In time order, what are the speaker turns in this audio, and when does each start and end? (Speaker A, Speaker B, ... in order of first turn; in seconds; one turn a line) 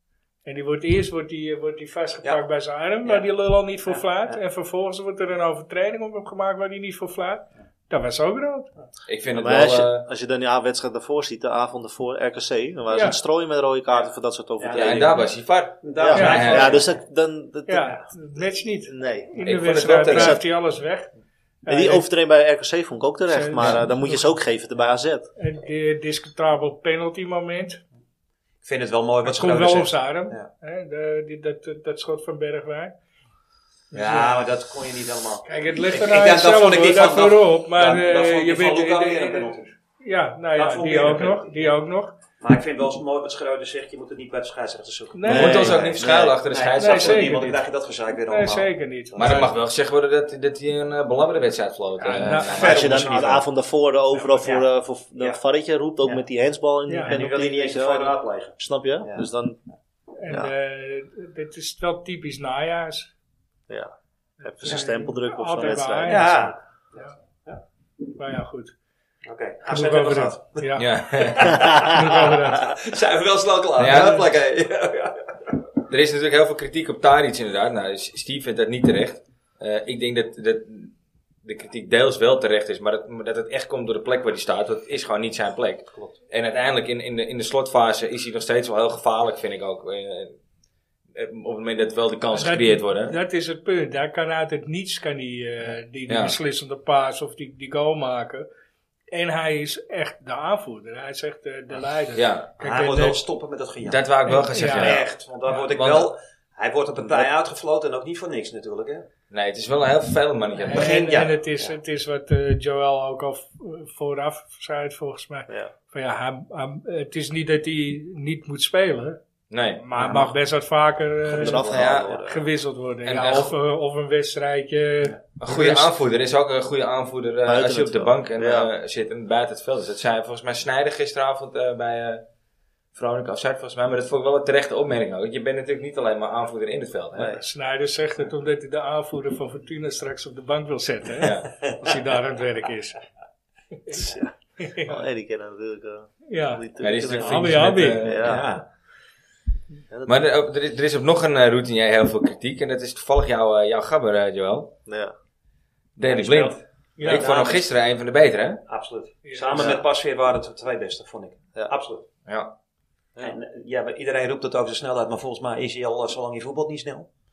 Speaker A: 0.5-8.7
Speaker B: 3.9-4.4
Speaker C: 9.1-10.1
Speaker D: 9.3-15.2
Speaker A: 12.9-13.2
Speaker B: 13.9-15.2
Speaker C: 14.7-16.8
Speaker B: 15.8-17.0
Speaker D: 16.0-18.2
Speaker A: 16.1-16.6
Speaker A: 17.7-21.1
Speaker D: 18.9-19.4
Speaker C: 19.4-20.4
Speaker D: 20.1-20.4
Speaker A: 21.6-22.1
Speaker D: 21.7-25.3
Speaker A: 23.3-24.4
Speaker A: 25.4-27.8
Speaker B: 28.6-30.5
Speaker A: 29.2-32.9
Speaker A: 33.9-34.5
Speaker B: 33.9-39.7
Speaker A: 35.5-42.1
Speaker B: 40.5-41.7
Speaker B: 42.4-49.5
Speaker A: 45.1-45.7
Speaker D: 45.3-46.4
Speaker C: 45.3-47.6
Speaker A: 46.8-47.6
Speaker A: 48.3-49.5
Speaker C: 49.1-53.0
Speaker A: 52.0-52.9
Speaker B: 52.4-53.5
Speaker D: 52.5-59.6
Speaker B: 54.3-54.6
Speaker A: 56.9-57.2
Speaker B: 57.0-59.3
Speaker A: 60.2-63.1
Speaker D: 63.7-66.5
Speaker A: 64.4-67.1
Speaker B: 66.0-66.6
Speaker A: 68.2-68.7
Speaker B: 69.3-75.5
Speaker A: 69.7-72.7
Speaker C: 70.8-71.7
Speaker C: 73.8-74.2
Speaker C: 75.9-80.9
Speaker C: 81.5-90.4
Speaker C: 91.2-93.2
Speaker A: 92.3-98.5
Speaker C: 96.1-96.4
Speaker A: 99.1-103.2
Speaker C: 102.2-102.5
Speaker B: 102.6-104.0
Speaker C: 103.9-106.1
Speaker A: 104.3-105.6
Speaker B: 104.7-109.1
Speaker C: 109.3-111.2
Speaker A: 110.6-119.2
Speaker B: 110.7-111.7
Speaker C: 119.5-119.8
Speaker A: 119.8-125.9
Speaker D: 120.0-120.3
Speaker D: 121.3-122.5
Speaker B: 121.4-122.1
Speaker C: 121.7-122.1
Speaker C: 123.0-123.5
Speaker C: 125.4-132.2
Speaker D: 127.5-128.7
Speaker C: 132.9-137.3
Speaker D: 137.1-137.4
Speaker A: 137.3-143.0
Speaker C: 141.2-141.5
Speaker A: 143.9-145.0
Speaker D: 143.9-148.5
Speaker A: 146.3-146.6
Speaker C: 146.8-148.5
Speaker A: 147.2-148.0
Speaker B: 148.2-148.6
Speaker D: 149.9-150.2
Speaker C: 150.1-154.7
Speaker D: 154.9-155.1
Speaker C: 156.0-158.6
Speaker B: 156.1-157.7
Speaker A: 157.0-157.3
Speaker B: 158.7-162.1
Speaker A: 159.2-159.7
Speaker D: 159.5-159.8
Speaker C: 162.3-162.5
Speaker B: 163.2-167.1